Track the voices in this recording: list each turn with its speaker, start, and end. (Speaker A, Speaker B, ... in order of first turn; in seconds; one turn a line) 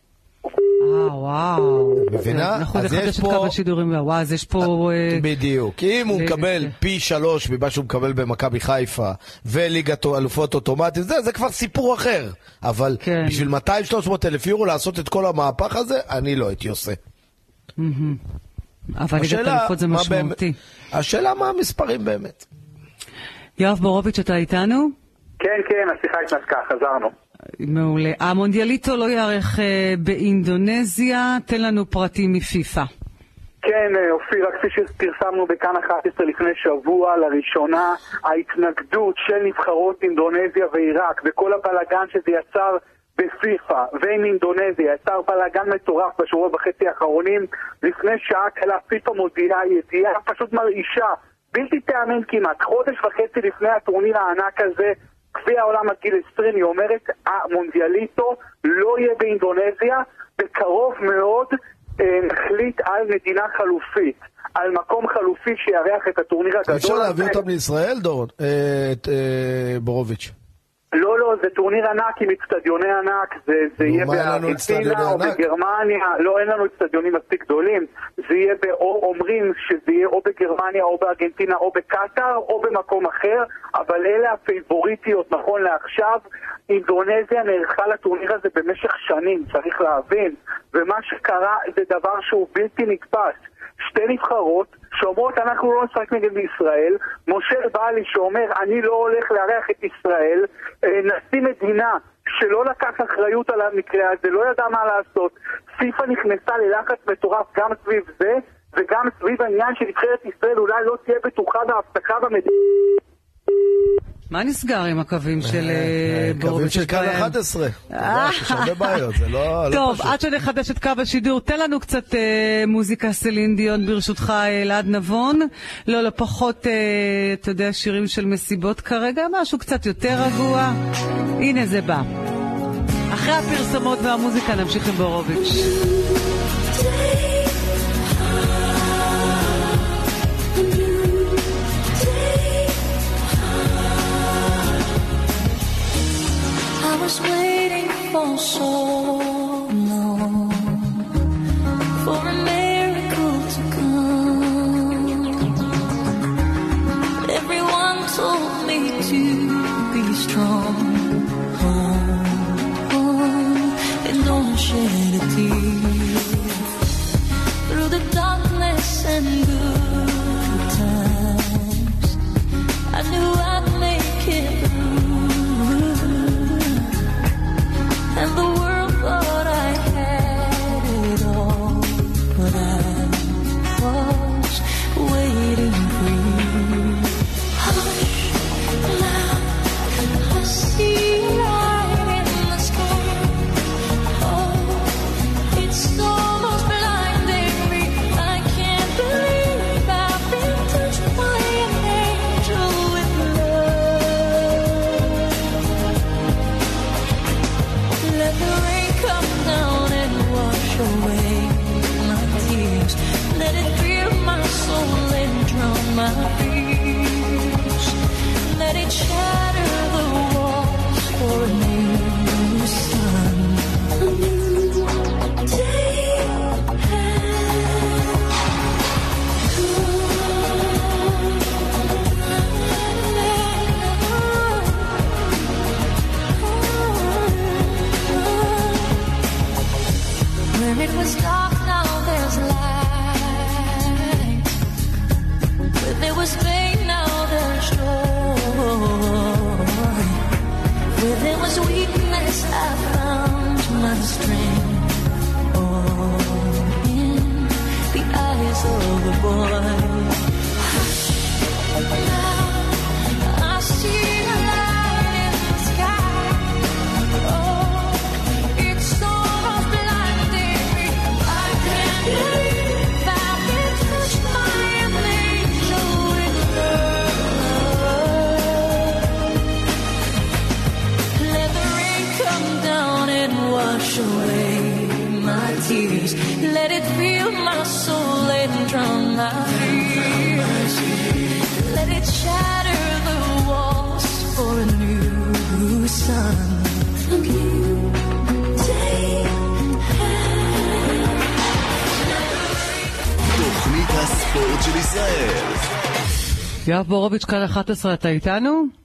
Speaker A: 0.8-5.2
Speaker B: 2.0-3.5
Speaker B: 4.6-17.0
Speaker A: 6.1-6.7
Speaker A: 13.0-13.5
Speaker A: 17.8-18.2
Speaker A: 19.0-20.6
Speaker B: 19.1-20.4
Speaker B: 20.9-22.4
Speaker A: 23.6-24.9
Speaker C: 25.4-27.1
Speaker A: 27.6-32.9
Speaker C: 33.6-67.4
Speaker B: 66.7-70.3
Speaker C: 70.9-113.0
Speaker B: 73.8-75.5
Speaker A: 114.3-117.3
Speaker B: 115.4-120.2
Speaker A: 117.9-119.0
Speaker A: 119.7-130.8
Speaker A: 131.4-132.1
Speaker A: 133.1-135.7
Speaker D: 135.5-139.6
Speaker D: 140.5-144.8
Speaker D: 146.8-151.1
Speaker D: 152.0-155.4
Speaker D: 157.2-166.6
Speaker D: 167.7-172.2
Speaker D: 172.9-176.9
Speaker D: 178.1-193.5
Speaker D: 194.2-205.2
Speaker D: 208.0-228.2
Speaker D: 229.4-231.6
Speaker D: 232.6-235.1
Speaker D: 236.3-239.0
Speaker D: 240.5-244.5
Speaker D: 245.8-250.2
Speaker D: 250.9-255.0
Speaker D: 255.5-261.1
Speaker D: 261.8-266.6
Speaker D: 267.2-279.2
Speaker D: 281.1-301.1
Speaker E: 303.2-305.7
Speaker A: 306.7-308.7